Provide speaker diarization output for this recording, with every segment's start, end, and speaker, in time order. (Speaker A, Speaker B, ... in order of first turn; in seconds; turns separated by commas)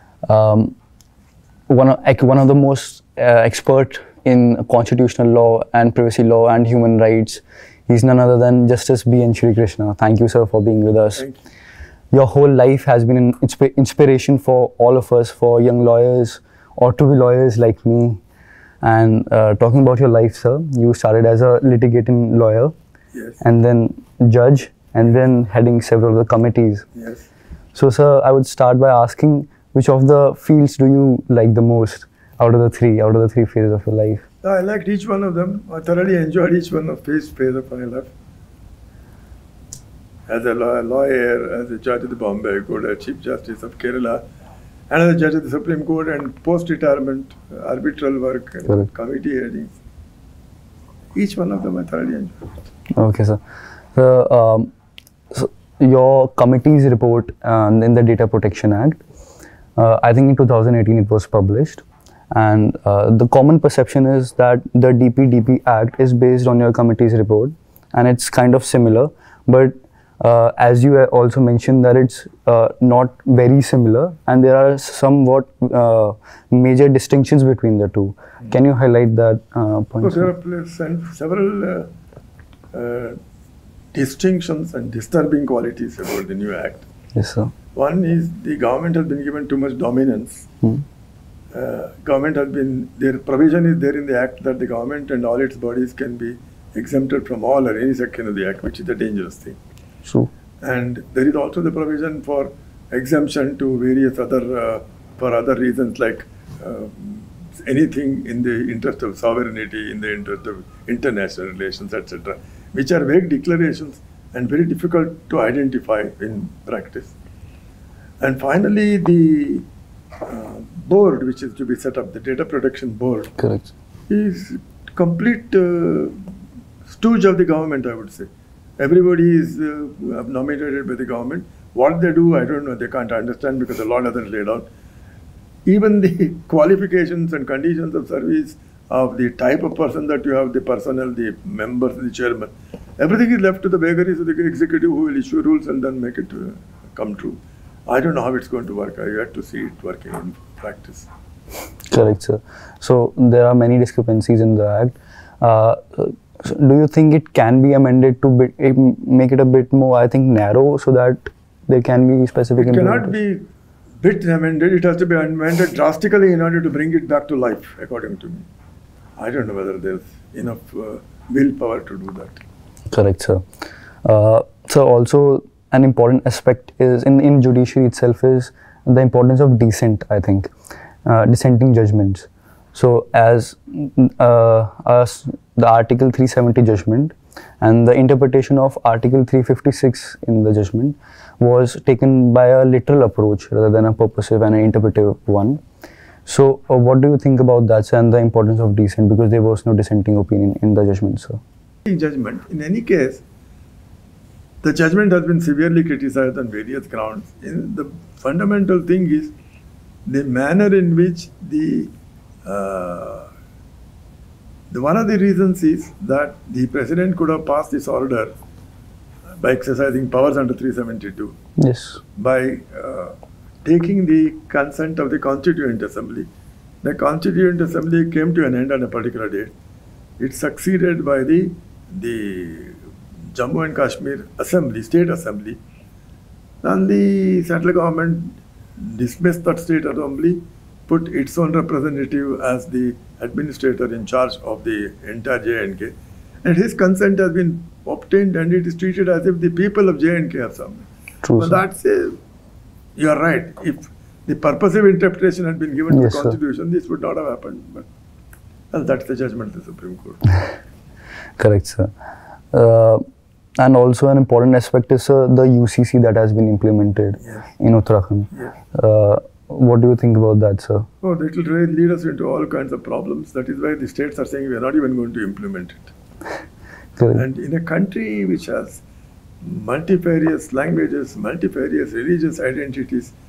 Speaker A: 0.2-0.8, Speaker A: 1.7-11.3, Speaker B: 11.2-11.4, Speaker A: 12.1-18.2, Speaker A: 18.8-22.7, Speaker B: 23.1-23.4, Speaker A: 23.4-26.9, Speaker B: 27.0-27.3, Speaker A: 27.7-34.2, Speaker B: 34.4-38.1, Speaker B: 40.3-44.2, Speaker B: 44.9-49.7, Speaker B: 51.1-52.5, Speaker A: 53.0-53.4, Speaker A: 54.0-54.7, Speaker A: 55.3-59.0, Speaker A: 59.8-80.3, Speaker B: 80.0-81.9, Speaker B: 82.7-83.2, Speaker B: 83.9-86.8, Speaker A: 87.2-87.5, Speaker B: 87.8-90.5, Speaker B: 91.5-99.6, Speaker A: 100.0-100.3, Speaker B: 100.6-117.2, Speaker B: 118.2-119.7, Speaker B: 120.3-123.4, Speaker A: 123.4-123.7, Speaker B: 124.1-126.3, Speaker B: 126.9-128.3, Speaker B: 128.8-134.7, Speaker B: 135.7-151.1, Speaker A: 151.9-163.2, Speaker B: 162.6-163.4, Speaker B: 164.0-168.5, Speaker B: 169.2-172.4, Speaker A: 172.9-173.4, Speaker A: 174.0-180.5, Speaker A: 181.1-195.6, Speaker A: 196.3-201.4, Speaker B: 201.8-203.2, Speaker B: 204.6-209.3, Speaker B: 210.1-211.9, Speaker B: 212.4-213.3, Speaker B: 214.7-218.3, Speaker B: 219.4-221.4, Speaker A: 221.6-222.0, Speaker B: 222.2-226.3, Speaker B: 226.8-229.5, Speaker B: 230.2-232.8, Speaker B: 233.3-235.6, Speaker B: 236.6-252.2, Speaker A: 251.2-251.6, Speaker B: 253.0-257.9, Speaker A: 255.9-256.4, Speaker B: 258.7-260.3, Speaker A: 261.4-261.9, Speaker A: 262.5-263.0, Speaker A: 263.6-270.9, Speaker B: 271.0-275.9, Speaker B: 277.1-278.8, Speaker B: 279.4-283.1